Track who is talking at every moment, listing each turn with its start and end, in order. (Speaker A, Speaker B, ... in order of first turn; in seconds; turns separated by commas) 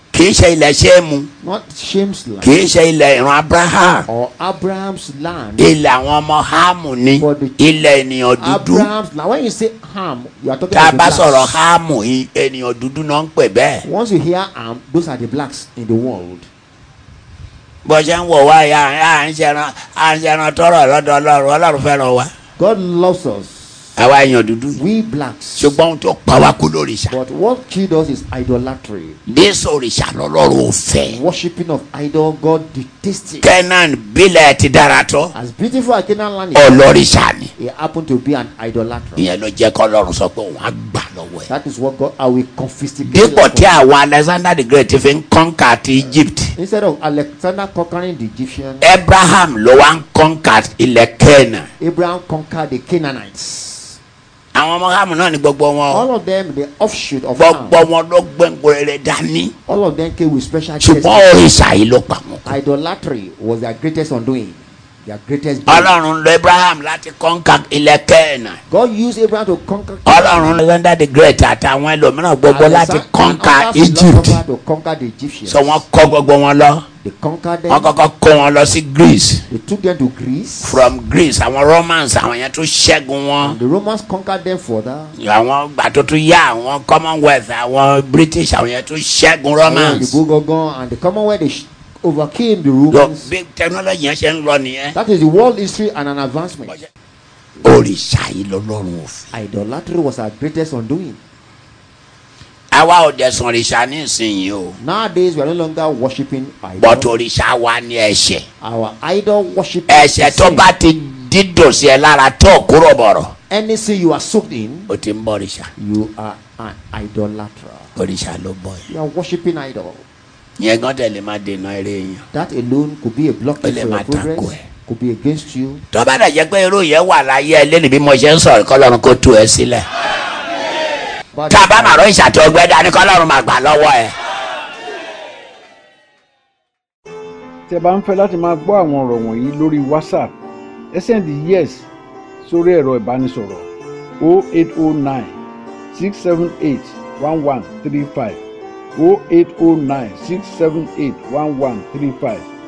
Speaker A: 0.1-1.3, Speaker B: 1.4-2.6, Speaker A: 2.4-4.1, Speaker B: 4.1-5.7, Speaker A: 5.6-8.9, Speaker B: 7.2-7.6, Speaker B: 8.4-11.6, Speaker A: 10.7-13.8, Speaker B: 13.8-16.5, Speaker A: 17.8-22.3, Speaker B: 22.6-24.0, Speaker A: 23.9-24.8, Speaker B: 24.8-25.8, Speaker A: 25.6-27.2, Speaker B: 27.1-29.2, Speaker A: 29.3-31.2, Speaker B: 31.1-33.5, Speaker A: 33.4-35.3, Speaker B: 35.3-36.9, Speaker A: 36.5-37.5, Speaker B: 37.5-39.3, Speaker A: 39.1-41.5, Speaker B: 41.5-43.8, Speaker A: 43.0-46.5, Speaker B: 46.0-49.0, Speaker A: 48.8-51.7, Speaker B: 51.8-54.0, Speaker A: 54.5-56.0, Speaker B: 55.9-57.8, Speaker A: 57.4-59.5, Speaker B: 59.6-61.3, Speaker A: 60.8-62.5, Speaker B: 62.5-66.0, Speaker A: 65.7-68.6, Speaker B: 68.7-70.6, Speaker A: 70.0-74.4, Speaker B: 72.5-75.8, Speaker A: 75.5-76.8, Speaker B: 77.0-77.9, Speaker A: 77.7-79.4, Speaker B: 79.5-80.9, Speaker A: 80.6-83.6, Speaker B: 83.4-85.2, Speaker A: 85.2-90.2, Speaker B: 89.6-93.3, Speaker A: 92.9-95.0, Speaker B: 94.9-96.8, Speaker A: 97.6-99.3, Speaker B: 99.3-101.2, Speaker A: 102.7-104.8, Speaker B: 104.8-107.1, Speaker A: 106.8-108.4, Speaker B: 108.6-110.7, Speaker A: 109.9-113.3, Speaker B: 113.5-114.9, Speaker A: 114.9-115.7, Speaker B: 115.8-117.9, Speaker A: 118.0-118.9, Speaker B: 118.9-120.0, Speaker A: 120.6-122.2, Speaker B: 122.3-125.8, Speaker A: 123.6-124.6, Speaker A: 125.9-129.8, Speaker B: 131.3-132.1, Speaker A: 131.5-134.1, Speaker C: 137.7-140.3, Speaker C: 140.9-141.9, Speaker C: 142.4-143.7, Speaker C: 144.2-145.4, Speaker C: 145.9-148.4, Speaker C: 148.9-152.5